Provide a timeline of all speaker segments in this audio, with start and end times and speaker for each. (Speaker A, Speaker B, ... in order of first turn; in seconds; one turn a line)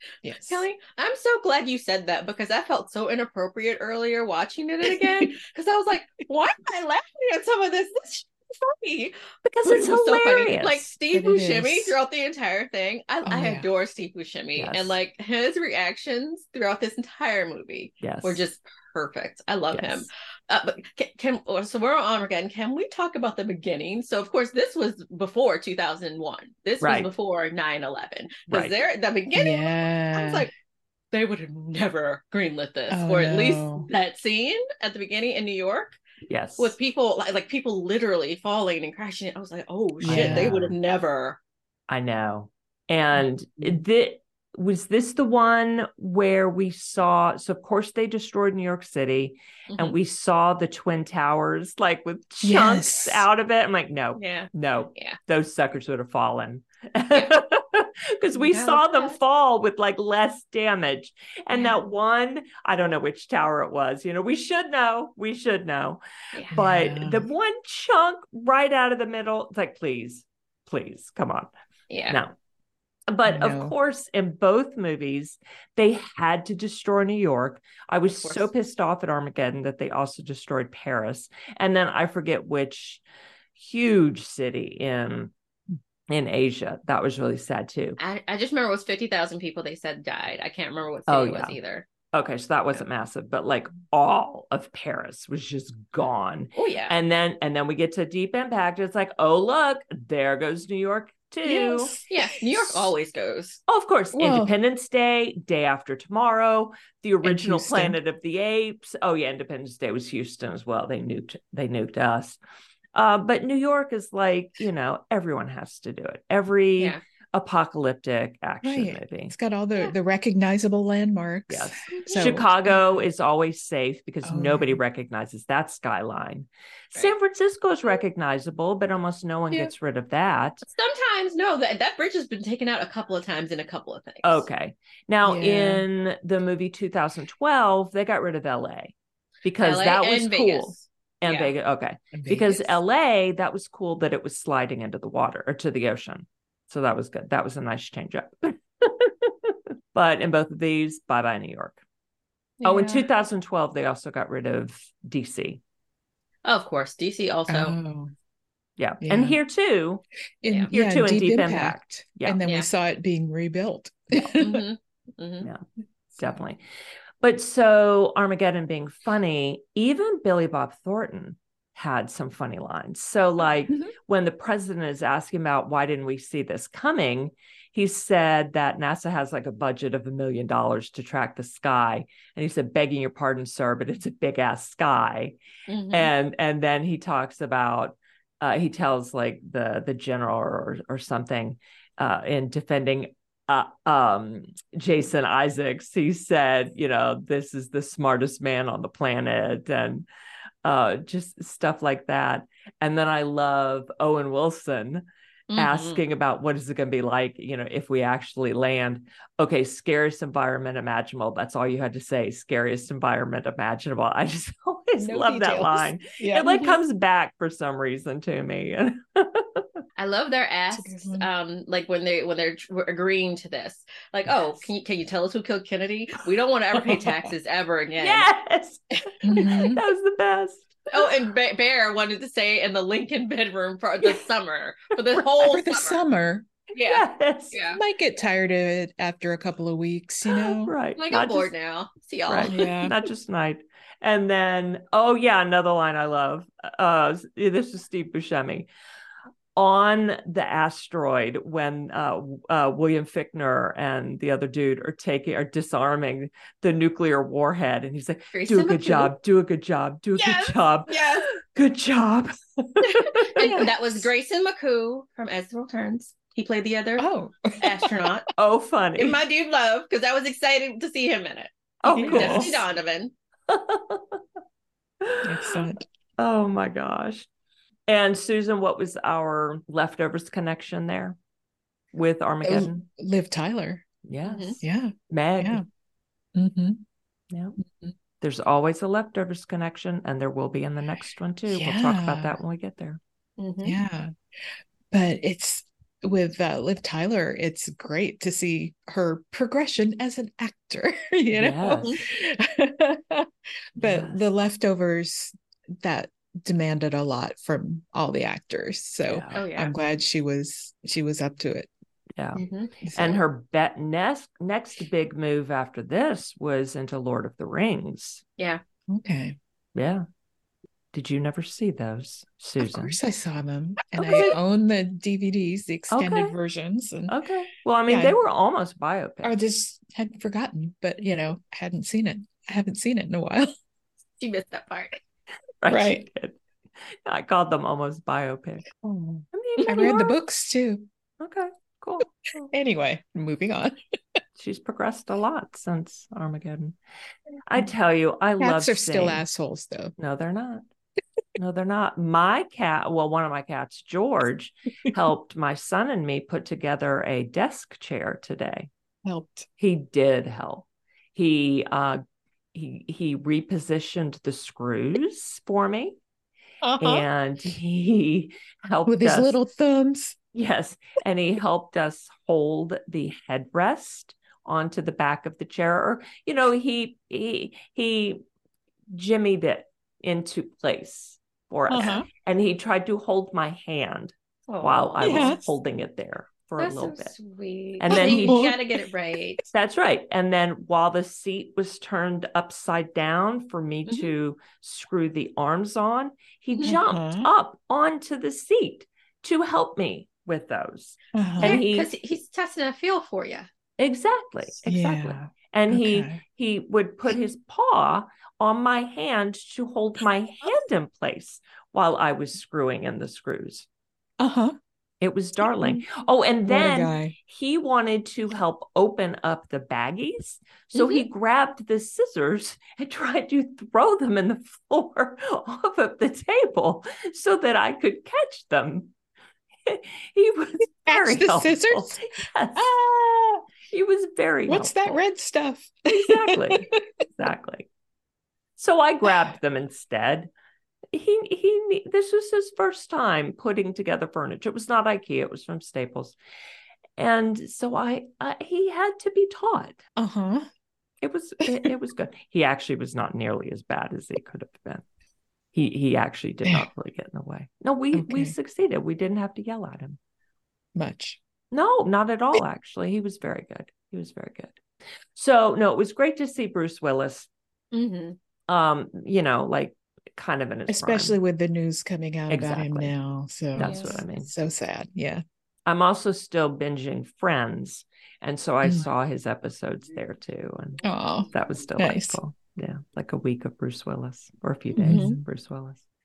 Speaker A: 0.2-0.7
Speaker B: 0.5-30.5
Speaker C: 9.4-10.9
Speaker A: 11.1-12.0
Speaker A: 13.2-13.7
Speaker C: 14.6-14.9
Speaker C: 18.0-18.4
Speaker C: 19.7-20.1
Speaker C: 26.8-27.1
Speaker C: 28.5-28.8
Speaker A: 29.4-30.5
Speaker B: 31.1-36.0
Speaker A: 32.9-33.9
Speaker C: 36.3-36.8
Speaker B: 36.6-41.4
Speaker A: 40.0-40.7
Speaker C: 40.0-40.8
Speaker C: 41.9-71.5
Speaker A: 43.1-43.8
Speaker B: 49.7-50.0
Speaker A: 52.4-53.3
Speaker B: 54.2-55.2
Speaker B: 58.4-59.2
Speaker A: 66.5-67.3
Speaker B: 71.9-72.2
Speaker C: 72.1-72.3
Speaker C: 73.1-83.0
Speaker A: 73.3-73.8
Speaker B: 78.1-78.5
Speaker C: 83.6-85.3
Speaker C: 86.1-88.0
Speaker B: 88.0-91.9
Speaker C: 91.1-91.6
Speaker C: 92.1-102.0
Speaker B: 96.6-96.9
Speaker A: 101.5-102.4
Speaker B: 102.1-103.6
Speaker C: 103.7-112.4
Speaker A: 104.2-104.5
Speaker A: 107.2-108.0
Speaker C: 112.9-119.3
Speaker A: 118.6-122.5
Speaker C: 121.5-130.6
Speaker B: 121.9-122.4
Speaker A: 124.2-124.8
Speaker B: 130.6-134.5
Speaker C: 134.2-138.9
Speaker A: 135.2-135.8
Speaker C: 139.4-151.8
Speaker B: 139.6-141.5
Speaker A: 142.1-142.7
Speaker B: 152.6-153.1
Speaker C: 152.7-155.6
Speaker B: 156.4-157.8
Speaker A: 157.5-158.1
Speaker C: 158.8-160.0
Speaker A: 159.0-159.4
Speaker A: 160.4-164.6
Speaker C: 160.7-162.4
Speaker B: 164.3-165.5
Speaker C: 166.2-166.6
Speaker C: 167.2-185.4
Speaker B: 185.7-186.1
Speaker C: 185.9-200.1
Speaker C: 200.6-205.1
Speaker B: 205.5-206.0
Speaker C: 205.6-219.7
Speaker A: 215.0-216.8
Speaker B: 220.0-228.3
Speaker A: 220.7-221.3
Speaker C: 228.0-230.9
Speaker A: 229.2-229.8
Speaker B: 230.9-236.0
Speaker A: 235.4-236.5
Speaker B: 236.7-237.8
Speaker C: 236.8-237.6
Speaker A: 237.7-240.8
Speaker C: 240.4-241.5
Speaker B: 241.0-242.9
Speaker C: 242.3-248.7
Speaker A: 242.5-243.0
Speaker C: 249.6-263.6
Speaker B: 258.3-259.1
Speaker B: 260.2-261.3
Speaker B: 262.8-267.1
Speaker A: 263.4-263.7
Speaker A: 267.0-267.9
Speaker B: 267.6-268.3
Speaker C: 268.4-269.2
Speaker B: 269.0-273.1
Speaker C: 271.8-272.6
Speaker A: 271.9-272.6
Speaker C: 273.5-274.2
Speaker C: 275.0-275.6
Speaker A: 275.2-275.9
Speaker C: 276.2-277.3
Speaker C: 277.9-281.2
Speaker C: 281.9-282.9
Speaker A: 282.4-283.8
Speaker C: 284.1-285.6
Speaker B: 284.2-284.6
Speaker A: 284.6-285.6
Speaker A: 286.4-286.8
Speaker C: 287.3-287.6
Speaker C: 288.2-293.0
Speaker A: 291.5-292.4
Speaker B: 293.4-293.8
Speaker A: 293.6-294.1
Speaker A: 294.9-311.7
Speaker C: 301.3-302.0
Speaker C: 303.8-304.2
Speaker C: 309.1-309.4
Speaker B: 309.4-309.7
Speaker C: 312.2-312.4
Speaker B: 312.4-312.7
Speaker A: 312.8-313.2
Speaker C: 312.9-318.2
Speaker A: 318.9-319.4
Speaker C: 319.8-320.0
Speaker C: 320.9-323.0
Speaker A: 322.6-327.1
Speaker C: 323.9-324.4
Speaker C: 325.9-326.3
Speaker C: 327.1-329.4
Speaker A: 327.9-328.2
Speaker A: 329.2-333.5
Speaker B: 334.2-335.0
Speaker C: 335.6-336.4
Speaker A: 335.7-336.1
Speaker C: 336.9-338.6
Speaker A: 338.8-340.9
Speaker C: 339.3-340.1
Speaker B: 339.6-339.9
Speaker C: 341.2-342.5
Speaker A: 342.5-343.8
Speaker C: 344.4-346.8
Speaker C: 347.5-349.2
Speaker A: 348.4-349.9
Speaker C: 350.0-350.6
Speaker C: 351.4-358.7
Speaker A: 359.0-359.5
Speaker C: 359.6-362.0
Speaker C: 362.5-366.0
Speaker A: 366.7-367.0
Speaker C: 366.8-369.3
Speaker A: 368.9-370.2
Speaker C: 370.3-378.2
Speaker C: 378.9-387.2
Speaker A: 381.7-382.1
Speaker B: 384.5-385.4
Speaker A: 385.0-385.5
Speaker B: 386.6-389.4
Speaker C: 387.8-388.4
Speaker A: 387.9-388.8
Speaker C: 389.5-401.9
Speaker B: 396.5-396.8
Speaker A: 396.6-397.3
Speaker A: 401.1-401.6
Speaker B: 401.4-403.5
Speaker C: 403.8-413.7
Speaker A: 404.6-406.2
Speaker A: 414.2-414.6
Speaker C: 415.0-428.9
Speaker A: 416.5-417.2
Speaker B: 420.8-421.1
Speaker C: 429.7-432.7
Speaker A: 430.9-432.0
Speaker A: 432.6-433.5
Speaker C: 433.7-435.0
Speaker A: 434.5-436.8
Speaker C: 436.0-437.7
Speaker C: 438.6-440.3
Speaker C: 440.9-446.2
Speaker C: 447.0-449.8
Speaker A: 450.0-450.5
Speaker C: 451.0-454.8
Speaker A: 451.4-451.7
Speaker C: 455.5-460.0
Speaker A: 457.9-458.3
Speaker A: 460.8-461.2
Speaker C: 461.5-464.6
Speaker C: 465.1-467.3
Speaker B: 467.7-468.2
Speaker C: 468.5-471.2
Speaker A: 470.7-475.2
Speaker C: 472.3-472.9
Speaker C: 473.6-474.3
Speaker B: 473.6-474.0
Speaker C: 475.7-485.8
Speaker A: 478.6-478.9
Speaker A: 480.8-482.2
Speaker A: 484.8-485.2
Speaker B: 484.8-485.2